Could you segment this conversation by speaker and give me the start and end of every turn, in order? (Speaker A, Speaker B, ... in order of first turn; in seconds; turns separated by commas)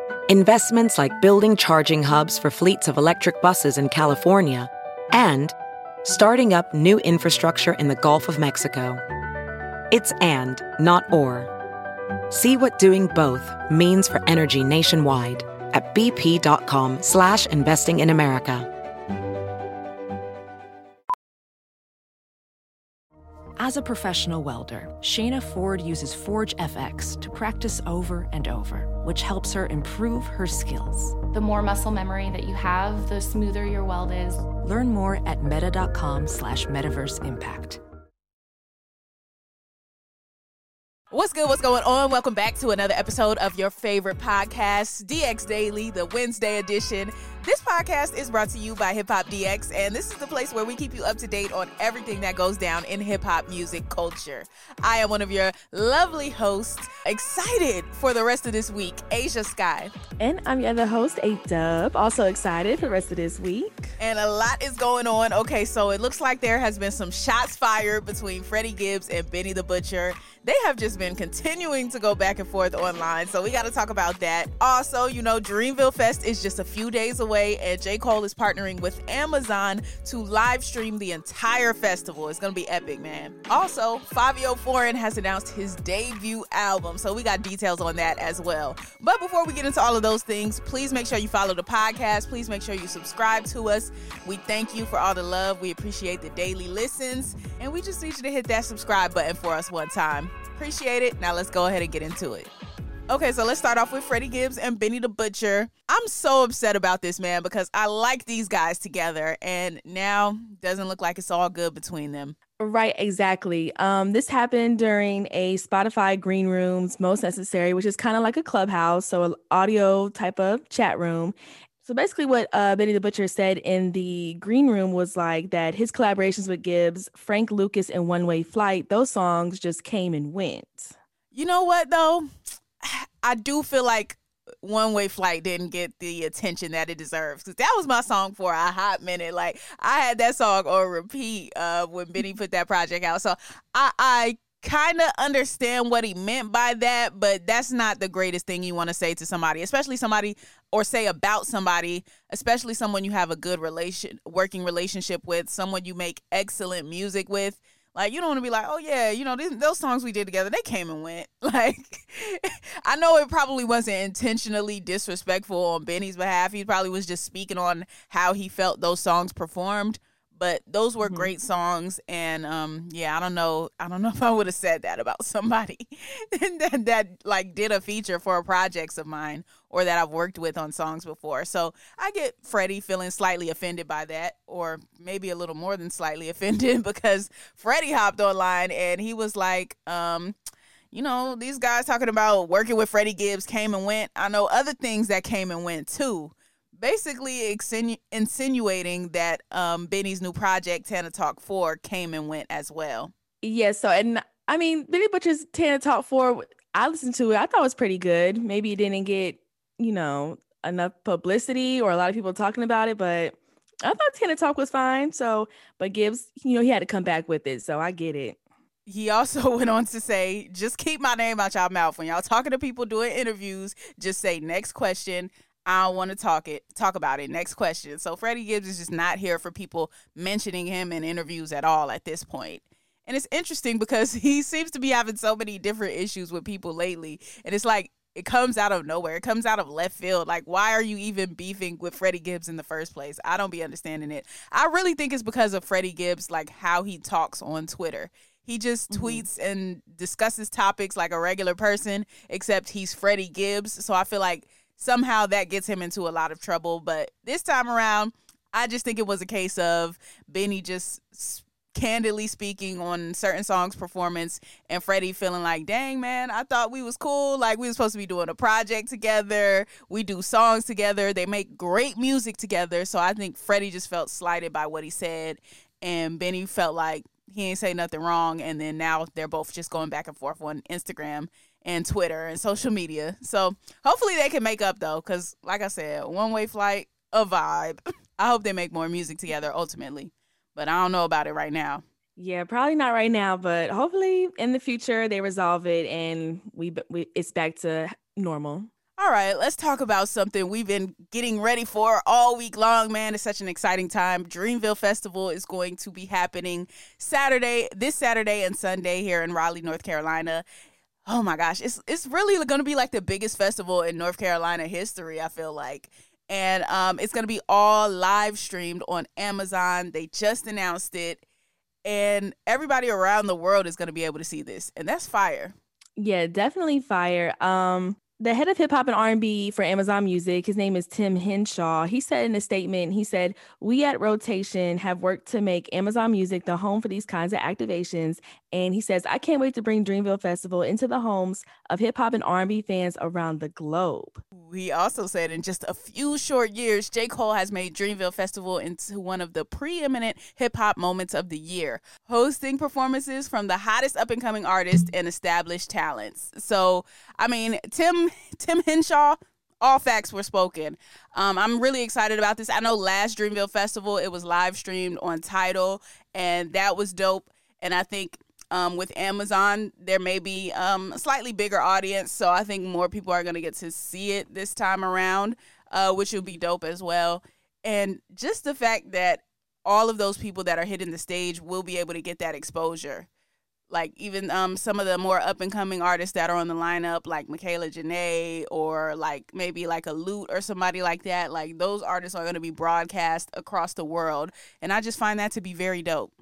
Speaker A: 0.3-9.0, Speaker A: 9.9-11.5, Speaker A: 12.3-18.7, Speaker B: 23.6-31.3, Speaker C: 31.4-33.0, Speaker C: 33.5-34.4, Speaker B: 34.5-37.8, Speaker D: 41.1-59.9, Speaker E: 60.2-63.9, Speaker D: 64.0-102.5, Speaker D: 103.1-112.3, Speaker E: 112.6-130.9, Speaker D: 131.3-132.2, Speaker D: 132.8-190.3, Speaker E: 171.0-171.3, Speaker D: 190.9-203.1, Speaker E: 203.4-218.4, Speaker D: 218.9-291.8, Speaker E: 248.9-249.3, Speaker E: 292.2-298.7, Speaker D: 299.0-310.4, Speaker D: 311.1-321.2, Speaker D: 321.9-325.6, Speaker E: 326.0-344.2, Speaker D: 344.4-383.1, Speaker D: 383.7-396.1